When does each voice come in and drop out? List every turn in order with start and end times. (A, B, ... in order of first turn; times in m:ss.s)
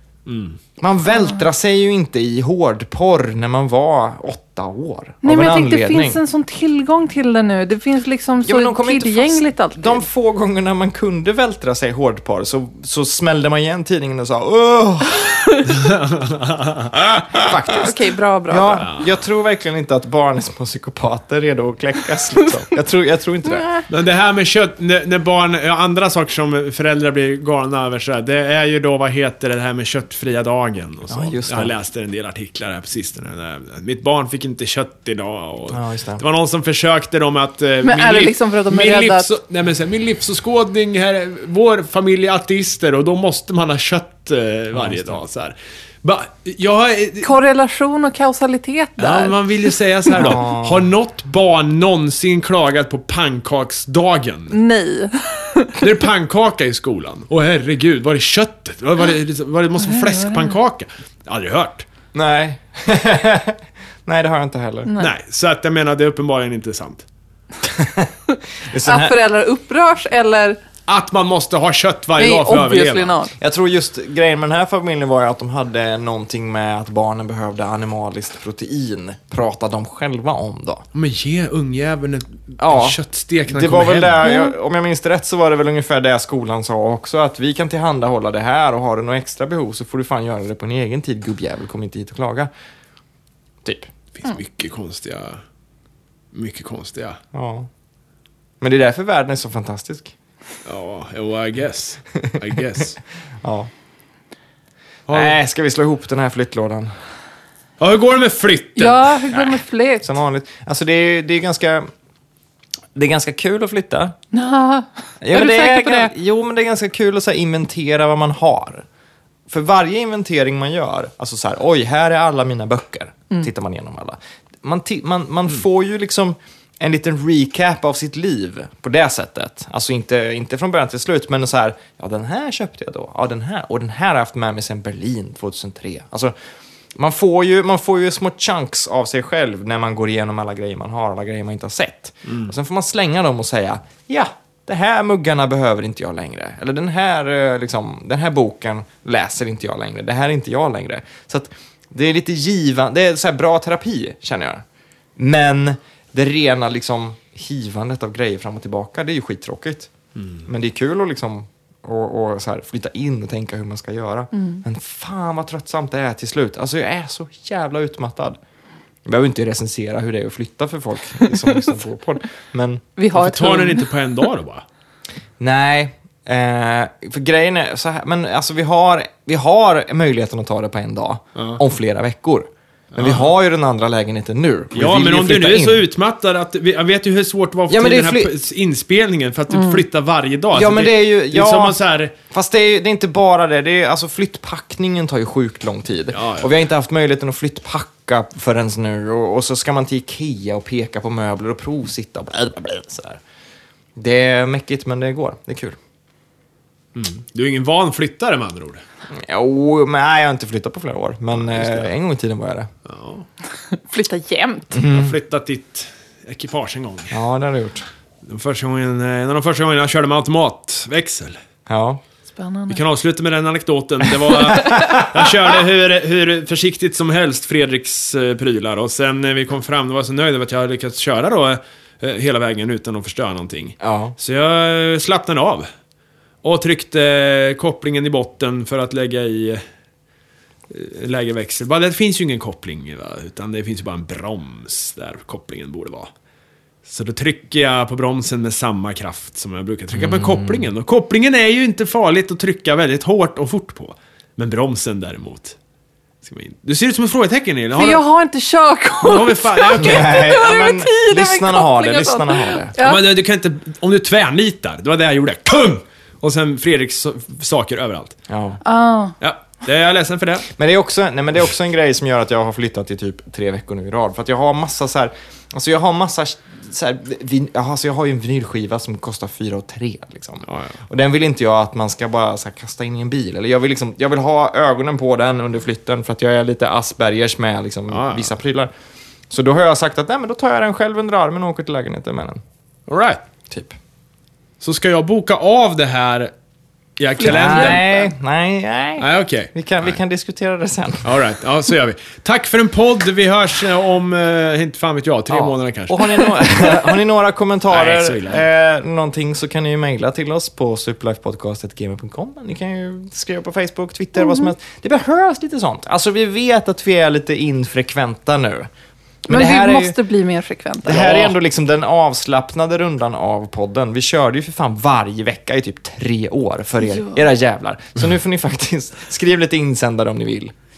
0:00.2-0:00.6 A
0:00.8-0:06.2 B
0:05.2-0:10.0 C
0:08.4-0:15.4 B
0:15.3-0:15.7 C
0:15.7-0:17.4 A
0:17.3-0:23.7 B
0:17.7-0:18.9 C
0:18.8-0:19.1 A
0:23.9-0:47.3 A
0:31.1-0:31.7 B
0:35.7-0:36.2 B
0:37.8-0:39.3 C
0:44.7-0:45.2 B
0:47.2-0:49.6 C
0:49.0-0:54.6 A
0:50.2-0:50.9 B
0:54.5-0:55.8 C
0:55.8-1:01.8 A
0:59.8-1:00.5 C
1:02.1-1:04.9 B
1:04.8-1:05.1 C
1:05.0-1:07.0 A
1:07.6-1:08.1 B
1:08.7-1:09.2 B
1:08.8-1:10.6 C
1:10.9-1:13.2 A
1:12.2-1:13.3 C
1:13.4-1:20.8 B
1:20.9-1:24.3 A
1:22.6-1:32.5 B
1:24.2-1:24.5 C
1:33.6-1:33.9 B
1:34.1-1:35.4 A
1:36.3-1:37.2 A
1:37.3-1:37.7 B
1:38.6-1:40.1 B
1:40.6-1:43.0 A
1:43.4-1:43.7 B
1:45.1-1:45.4 A
1:45.1-1:46.9 B
1:47.8-1:49.5 A
1:48.8-1:50.0 C
1:50.0-1:51.9 B
1:52.9-1:54.1 B
1:54.3-1:56.1 C
1:55.2-1:58.8 B
1:59.5-2:16.3 B
2:17.0-2:34.6 B
2:22.2-2:22.5 A
2:35.2-2:39.9 B
2:40.2-2:40.4 A
2:40.4-2:48.4 B
2:44.3-2:44.6 C
2:49.0-2:52.8 B
2:53.0-2:53.9 C
2:53.1-2:54.6 A
2:55.4-3:05.8 B
3:01.4-3:01.6 A
3:02.9-3:03.3 A
3:04.7-3:12.1 A
3:07.7-3:08.3 B
3:09.5-3:09.8 C
3:10.5-3:11.8 B
3:12.3-3:23.2 B
3:16.1-3:16.5 A
3:24.0-3:25.8 B
3:26.9-3:28.8 A
3:29.1-3:32.7 B
3:31.4-3:31.9 A
3:32.8-3:33.2 A
3:33.7-3:34.8 C
3:34.7-3:35.2 B
3:34.8-3:37.2 A
3:37.1-3:37.8 B
3:38.2-3:41.4 A
3:41.7-3:42.0 B
3:42.3-3:42.8 C
3:42.7-3:55.7 A
3:44.5-3:45.4 B
3:53.8-3:54.2 B
3:56.4-3:59.6 A
4:00.7-4:06.1 A
4:06.8-4:15.6 A
4:09.9-4:10.7 B
4:16.2-4:18.0 A
4:17.7-4:23.0 C
4:19.0-4:20.2 A
4:19.8-4:22.7 B
4:22.8-4:28.2 A
4:28.3-4:28.6 B
4:28.6-4:29.1 C
4:29.2-4:30.5 A
4:30.5-4:48.7 B
4:40.4-4:40.7 A
4:47.9-4:48.3 A
4:49.3-4:52.4 B
4:52.9-4:53.2 A
4:53.5-4:53.8 B
4:54.6-4:56.3 A
4:57.0-4:57.8 A
4:57.2-4:58.1 C
4:57.2-5:01.0 B
4:59.0-4:59.5 A
5:01.0-5:06.8 A
5:05.3-5:18.7 B
5:07.7-5:08.4 A
5:19.2-5:20.0 B
5:19.3-5:21.1 C
5:20.8-5:30.5 B
5:20.9-5:21.4 A